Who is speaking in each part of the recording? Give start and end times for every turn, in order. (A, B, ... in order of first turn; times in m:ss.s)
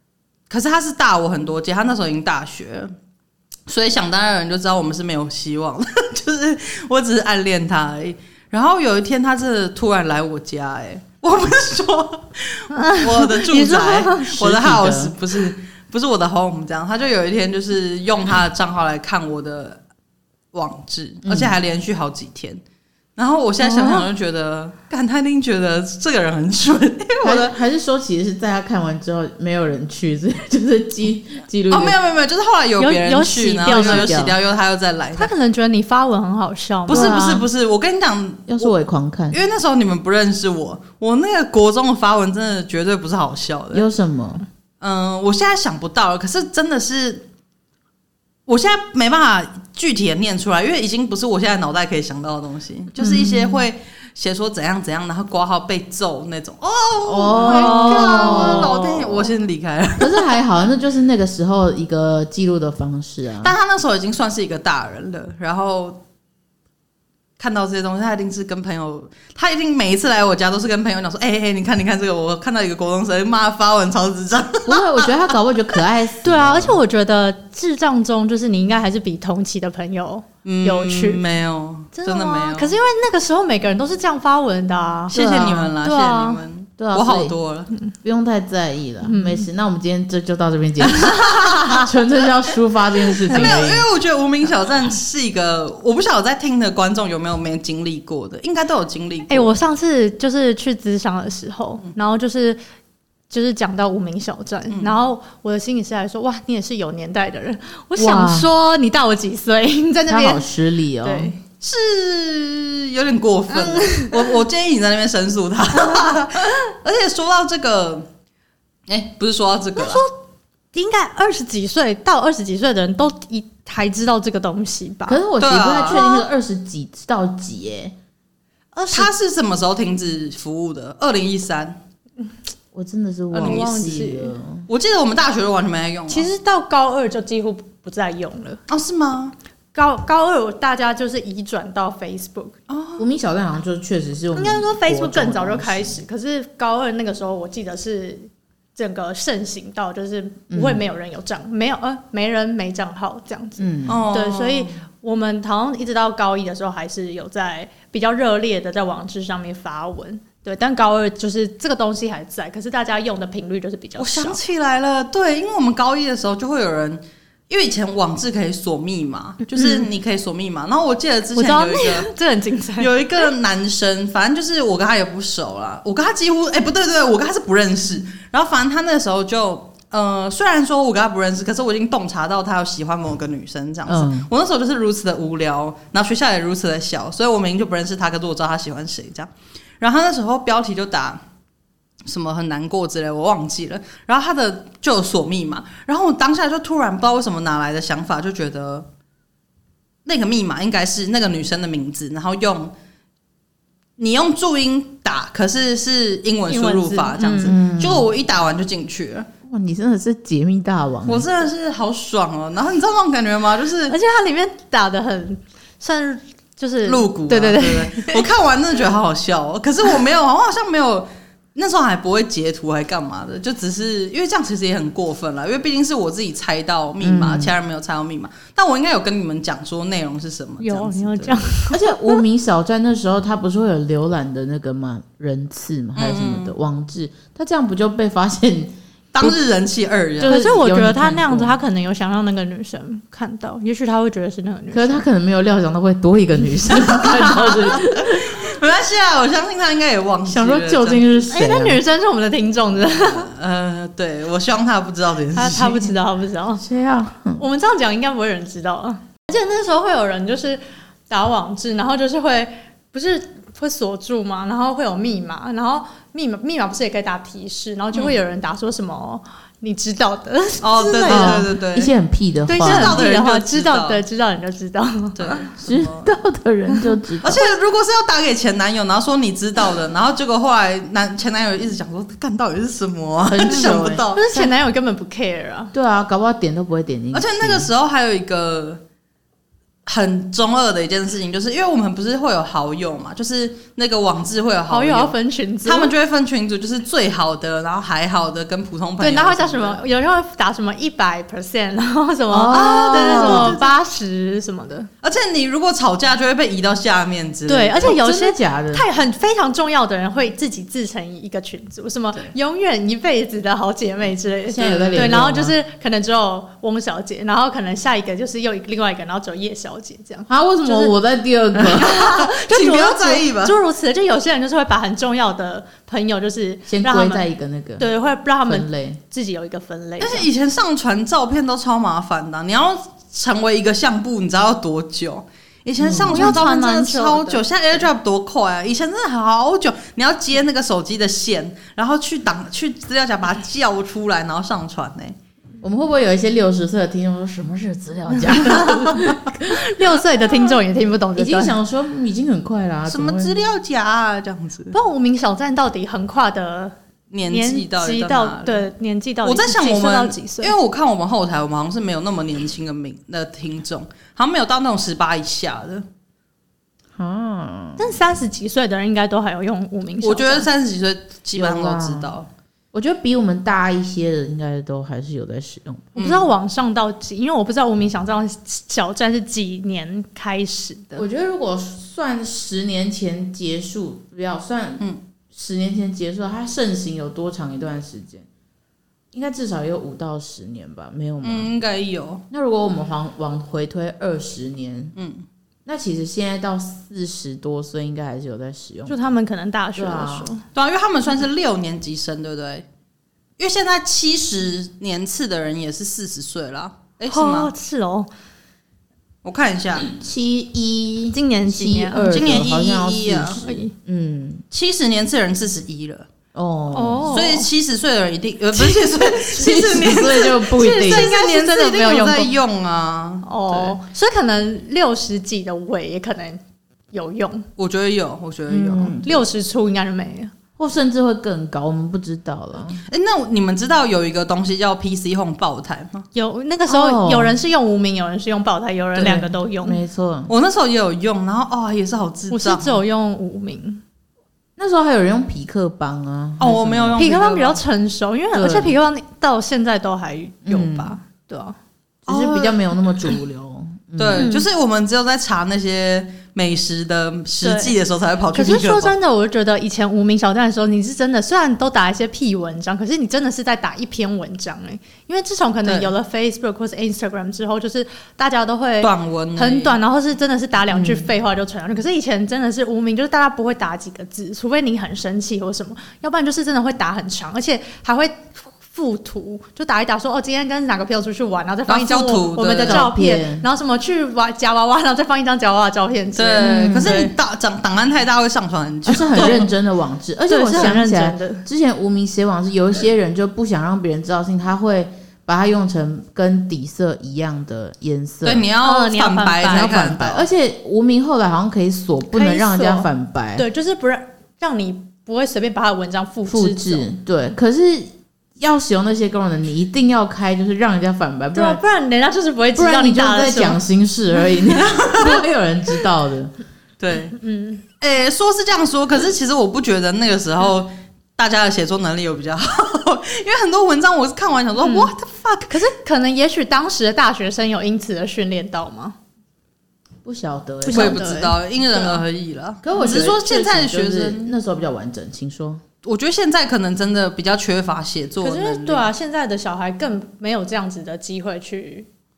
0:00.5-0:02.9 A
0:03.7-0:19.8 A
0:12.7-0:14.3 B
0:14.3-0:15.1 C
0:20.5-0:22.6 A
0:21.2-0:21.5 C
0:23.2-0:27.6 A
0:23.6-0:24.0 C
0:27.2-0:32.0 C
0:31.7-0:35.3 A
0:32.8-0:34.2 B
0:33.6-0:34.4 C
0:35.2-0:37.2 B
0:36.9-0:37.5 C
0:36.9-0:38.7 A
0:38.5-0:39.4 C
0:39.3-0:43.9 A
0:43.7-0:44.4 C
0:44.8-0:47.2 A
0:48.4-1:00.3 A
0:53.0-0:53.6 C
0:57.0-0:59.3 C
0:57.3-0:58.7 B
1:00.0-1:03.5 C
1:03.4-1:06.0 A
1:07.4-1:15.1 A
1:14.6-1:16.8 C
1:16.2-1:21.2 B
1:20.4-1:22.7 A
1:21.9-1:25.2 B
1:25.1-1:25.7 C
1:25.1-1:27.7 A
1:25.8-1:26.4 B
1:26.8-1:27.3 C
1:28.0-1:33.8 C
1:29.0-1:29.5 B
1:31.0-1:31.9 A
1:33.3-1:39.5 A
1:33.3-1:33.6 B
1:39.3-1:42.6 B
1:43.3-1:50.5 B
1:44.7-1:45.0 A
1:48.0-1:48.5 C
1:50.1-1:51.3 C
1:51.0-1:51.4 B
1:51.6-1:58.1 A
1:53.5-1:54.2 B
1:58.9-2:00.0 A
1:59.8-2:00.1 B
2:00.7-2:05.2 B
2:05.0-2:08.0 C
2:05.4-2:06.1 A
2:05.9-2:06.2 B
2:08.7-2:09.1 B
2:08.9-2:11.8 A
2:12.7-2:14.7 C
2:13.3-2:13.6 A
2:13.3-2:14.3 B
2:14.7-2:16.3 A
2:16.1-2:18.6 B
2:18.7-2:19.3 A
2:19.7-2:22.6 B
2:22.7-2:23.0 A
2:23.0-2:26.0 C
2:24.3-2:44.4 B
2:30.5-2:30.8 C
2:33.6-2:34.0 C
2:33.9-2:34.8 A
2:44.0-2:52.1 A
2:49.5-2:49.9 B
2:51.3-2:53.3 B
2:52.8-3:11.2 A
3:03.8-3:04.3 C
3:12.0-3:18.9 A
3:20.0-3:22.7 A
3:24.0-3:29.3 A
3:26.5-3:27.5 B
3:27.2-3:28.1 C
3:29.4-3:31.3 C
3:31.1-3:34.0 A
3:33.9-3:38.3 B
3:36.8-3:51.5 A
3:47.0-3:47.5 C
3:50.6-3:52.2 B
3:51.7-3:59.4 C
3:56.0-3:56.5 A
3:59.1-4:00.4 A
4:00.2-4:01.6 C
4:00.2-4:05.0 B
4:04.7-4:08.3 C
4:06.7-4:11.0 A
4:10.2-4:11.8 C
4:11.3-4:13.3 B
4:13.0-4:15.9 A
4:15.3-4:16.6 B
4:16.6-4:17.4 C
4:17.4-4:31.5 B
4:30.6-4:31.9 A
4:31.1-4:33.0 C
4:32.5-4:35.4 B
4:32.6-4:34.0 A
4:35.2-4:36.2 A
4:35.6-4:37.4 C
4:36.7-4:36.9 B
4:37.2-4:44.3 A
4:43.2-4:44.5 C
4:43.5-4:45.7 B
4:45.7-4:47.7 C
4:47.1-4:48.8 A
4:49.8-4:59.8 A
4:54.7-4:55.9 B
4:59.0-5:04.9 B
5:02.3-5:03.6 C
5:02.5-5:03.7 A
5:05.0-5:07.9 A
5:07.5-5:20.9 B
5:07.8-5:08.9 C
5:14.5-5:15.5 C
5:14.7-5:15.1 A
5:20.3-5:21.9 C
5:21.5-5:23.6 A
5:21.7-5:27.2 B
5:26.7-5:27.8 C
5:27.8-5:30.3 B
5:28.4-5:29.0 C
5:30.0-5:45.2 A
5:35.8-5:36.4 C
5:36.0-5:37.4 B
5:45.6-5:49.6 C
5:48.4-5:51.5 B
5:48.5-5:48.9 A
5:51.2-5:53.4 C
5:52.9-5:54.8 A
5:54.7-5:56.7 B
5:57.1-5:58.7 A
5:57.3-6:00.6 B
5:59.2-6:05.8 A
6:06.9-6:08.0 C
6:07.8-6:10.5 B
6:10.0-6:12.3 A
6:11.3-6:12.1 C
6:12.7-6:15.9 C
6:16.0-6:16.3 A
6:16.0-6:21.1 B
6:21.0-6:28.2 C
6:29.1-6:31.5 C
6:31.2-6:32.2 A
6:32.3-6:34.9 C
6:35.0-6:35.2 A
6:35.6-6:39.1 C
6:38.9-6:40.4 B
6:39.8-6:40.3 C
6:40.5-6:42.6 A
6:43.4-6:47.5 A
6:47.1-6:48.1 B
6:49.2-6:49.9 A
6:49.8-6:54.4 C
6:51.1-6:52.5 B
6:52.0-6:53.4 A
6:53.4-6:53.7 B
6:54.5-6:56.1 A
6:56.3-6:57.2 C
6:56.7-6:57.5 B
6:57.1-7:03.8 A
6:58.5-7:02.3 B
6:59.3-7:01.1 C
7:03.2-7:06.4 B
7:06.9-7:07.5 B
7:07.6-7:09.1 A
7:08.5-7:09.1 C
7:09.0-7:10.3 B
7:10.6-7:12.8 C
7:12.9-7:16.1 A
7:16.1-7:19.8 B
7:16.7-7:17.4 C
7:19.0-7:19.2 A
7:19.0-7:20.3 C
7:20.3-7:22.8 A
7:22.3-7:23.8 B
7:24.6-7:27.0 C
7:26.4-7:27.6 A
7:27.0-7:31.6 B
7:28.3-7:28.8 C
7:30.4-7:31.0 C
7:32.0-7:34.3 C
7:32.1-7:32.6 A
7:34.0-7:38.9 A
7:34.2-7:34.4 B
7:37.4-7:37.7 B
7:38.3-8:07.1 B
7:45.6-7:45.9 A
7:48.8-7:49.8 A
7:50.7-7:51.1 C
8:01.7-8:02.9 A
8:02.6-8:03.4 C
8:06.2-8:09.4 A
8:06.4-8:07.0 C
8:08.8-8:18.5 C
8:09.1-8:09.4 B
8:10.3-8:11.4 B
8:18.2-8:20.3 A
8:18.6-8:19.9 B
8:19.5-8:23.4 C
8:22.1-8:26.9 B
8:26.3-8:31.6 C
8:31.3-8:33.6 B
8:32.6-8:36.3 C
8:36.8-8:37.2 A
8:37.2-8:37.6 B
8:37.8-8:45.5 A
8:44.6-8:44.9 B
8:45.5-8:49.0 B
8:50.0-8:51.3 C
8:50.6-8:52.0 B
8:50.7-8:54.3 A
8:52.6-8:55.6 C
8:55.8-8:58.9 A
8:58.2-9:01.9 B